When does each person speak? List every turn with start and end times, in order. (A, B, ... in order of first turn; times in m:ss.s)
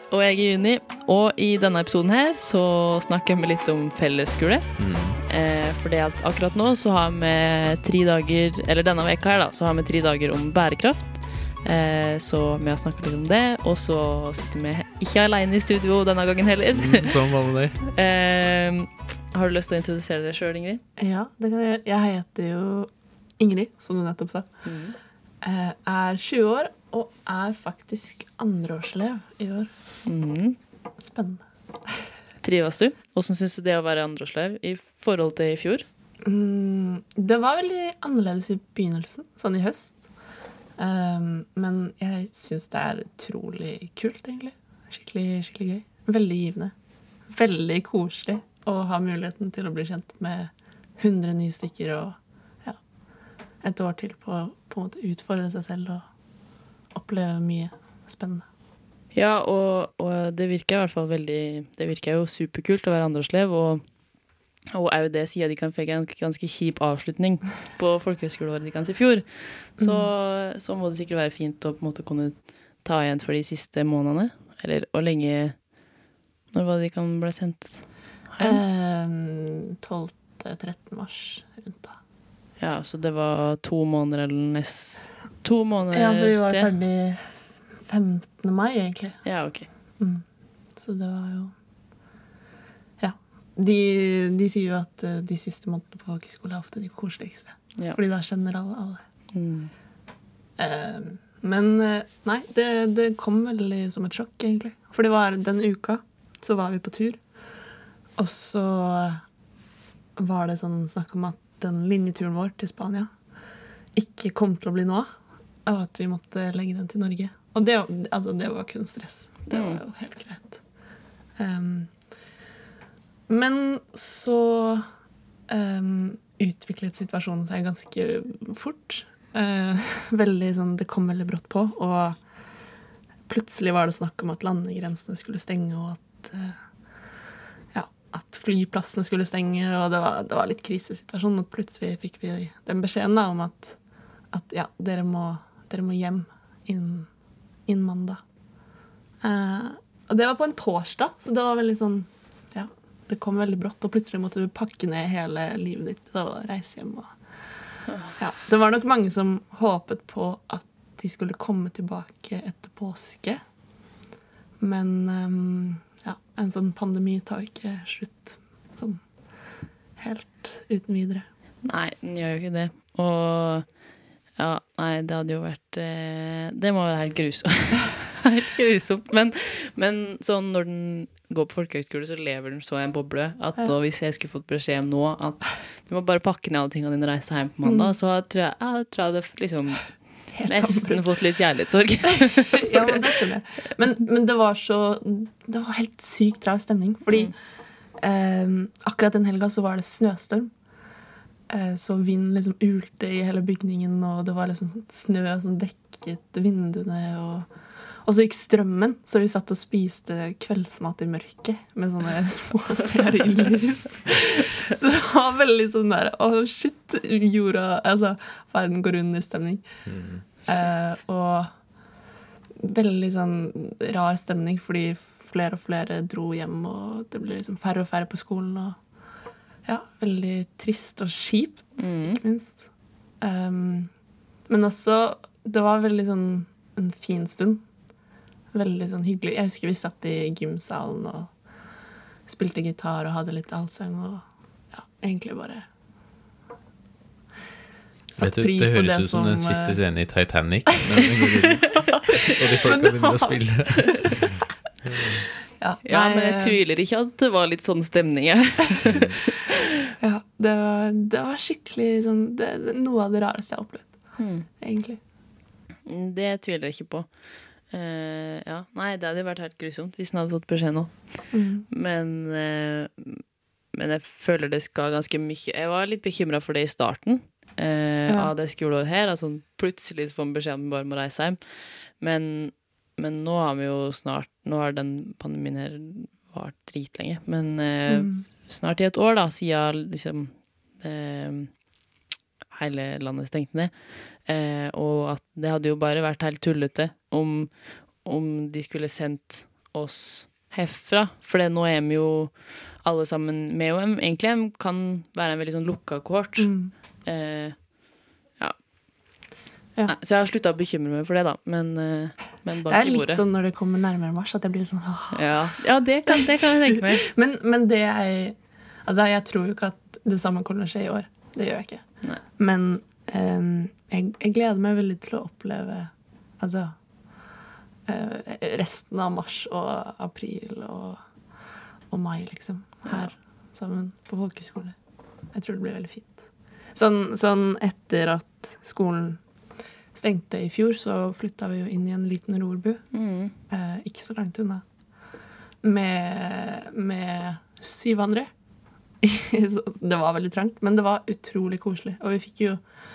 0:00.1-0:04.7 A
0:04.8-0:05.2 B
0:05.2-0:17.2 A
0:16.8-0:17.8 B
0:17.8-0:20.8 A
0:21.0-0:24.6 C
0:24.6-0:25.0 A
0:25.4-0:29.7 C
0:30.0-0:30.6 A
0:31.0-0:32.1 C
0:32.4-0:35.8 A
0:36.2-0:40.0 C
0:40.8-0:46.7 C
0:47.3-0:52.8 C
0:53.6-0:56.1 C
0:56.9-0:58.5 C
0:59.1-1:03.8 A
1:04.7-1:15.6 A
1:09.8-1:10.1 C
1:16.5-1:18.6 A
1:18.4-1:22.0 C
1:22.6-1:26.7 A
1:25.9-1:29.2 C
1:29.2-1:29.7 A
1:30.0-1:30.2 C
1:30.8-1:31.5 C
1:33.0-1:39.0 C
1:39.3-1:39.7 A
1:40.6-1:47.2 C
1:48.2-1:49.2 C
1:50.2-1:53.1 C
1:54.0-1:55.1 C
1:55.7-2:00.6 C
1:59.5-1:59.8 A
2:01.4-2:02.0 C
2:03.3-2:04.9 C
2:05.5-2:12.2 C
2:13.3-2:16.6 C
2:17.7-2:23.8 C
2:24.3-2:27.1 C
2:27.7-2:28.2 C
2:29.2-2:37.1 C
2:38.2-2:43.4 C
2:44.6-2:49.0 C
2:50.0-2:51.2 C
2:51.6-2:53.7 A
2:54.4-3:13.1 A
3:07.6-3:07.9 C
3:10.3-3:11.1 C
3:12.5-3:17.3 C
3:18.0-3:20.5 C
3:21.5-3:27.5 C
3:28.0-3:39.6 C
3:39.9-3:40.2 B
3:40.4-3:41.5 C
3:42.6-3:48.8 C
3:49.6-3:52.7 C
3:51.8-3:52.2 A
3:53.2-3:53.9 C
3:54.5-3:57.6 C
3:58.5-4:01.3 C
4:02.3-4:05.7 C
4:08.1-4:09.8 C
4:08.2-4:15.3 B
4:10.9-4:14.2 C
4:15.6-4:16.6 C
4:15.8-4:19.9 A
4:18.8-4:19.2 B
4:20.0-4:23.9 C
4:24.2-4:24.5 A
4:24.6-4:25.0 C
4:25.9-4:27.1 A
4:27.7-4:30.9 A
4:31.3-4:31.7 C
4:31.7-4:41.4 A
4:38.1-4:38.3 C
4:42.0-4:51.6 A
4:47.9-4:48.2 C
4:52.5-4:53.7 A
4:54.2-5:07.6 A
5:06.4-5:06.7 C
5:09.9-5:13.2 A
5:12.7-5:15.4 C
5:15.1-5:17.1 A
5:16.1-5:26.8 C
5:27.9-5:31.0 C
5:31.9-5:34.8 C
5:35.3-5:39.2 C
5:39.9-5:42.9 C
5:42.9-5:43.3 A
5:43.5-5:44.6 C
5:45.6-5:48.3 C
5:49.0-5:52.6 C